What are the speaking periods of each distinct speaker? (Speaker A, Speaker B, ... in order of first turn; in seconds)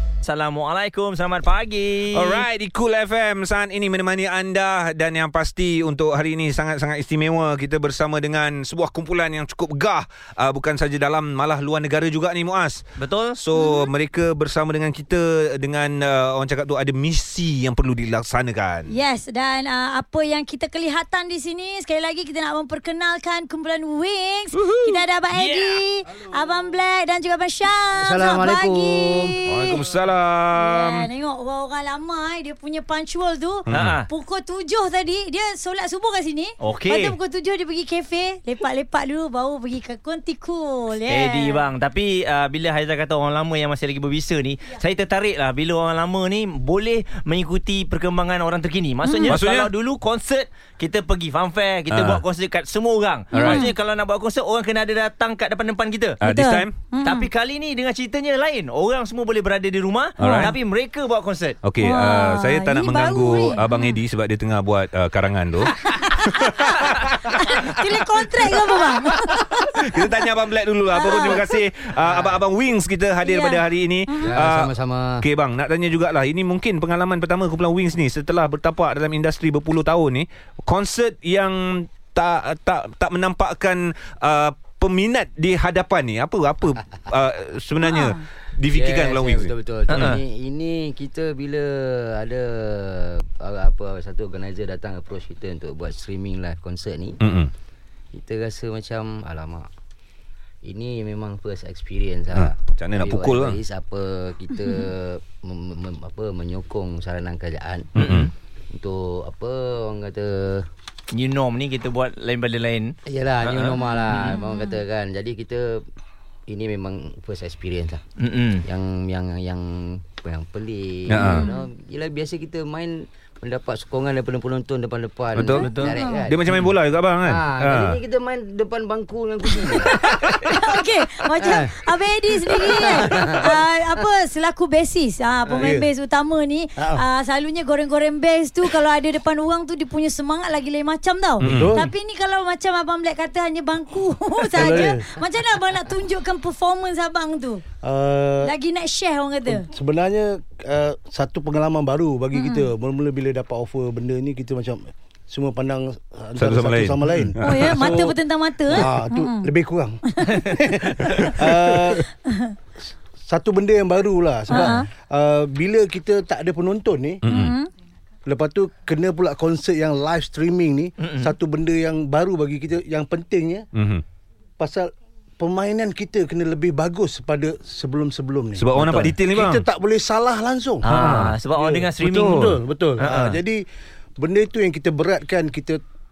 Speaker A: 0.2-2.5, 13.0-13.4, 25.3-25.8, 33.7-34.1, 36.6-37.1, 41.1-56.2, 57.0-61.6, 89.9-90.2, 108.0-108.3, 111.1-114.4, 118.2-118.7, 125.6-126.0, 171.0-171.3, 180.8-183.4
Speaker B: 2.1-12.8, 13.4-18.9, 24.5-25.0, 29.4-31.1, 33.7-34.0, 49.3-49.7, 51.9-52.2, 53.3-53.6, 56.2-56.7, 60.2-60.5, 61.6-90.2, 97.2-97.5, 102.3-103.6, 108.0-108.3, 121.1-121.5, 125.3-128.0, 141.4-141.8, 156.4-157.8, 167.2-167.6, 173.7-174.0, 178.6-179.6, 180.9-181.4, 182.1-182.6
Speaker C: 13.5-13.9, 18.9-29.9, 30.5-41.7, 49.0-49.4, 53.3-53.7, 56.2-57.3, 60.2-60.5, 61.8-64.0, 65.7-70.2, 70.9-71.6, 73.2-74.4, 87.8-88.2, 104.5-104.9, 113.9-114.8, 121.2-121.7, 125.6-126.3, 129.7-147.6, 148.4-149.7, 152.3-152.7, 157.4-159.5, 160.1-161.4, 162.3-162.5, 164.5-164.9, 167.3-167.7
Speaker D: 27.9-29.4, 72.0-72.4, 74.2-75.3, 88.7-97.2, 98.1-99.7, 100.6-110.7, 113.1-115.9, 116.5-118.0, 118.7-126.7, 127.2-130.2, 131.4-131.8, 132.5-133.6
Speaker E: 135.5-135.9, 136.8-137.1, 141.4-141.9, 144.4-145.2, 147.8-148.5, 149.5-162.1, 163.2-167.2, 168.2-173.7, 174.6-181.0, 181.6-183.6, 184.2-185.8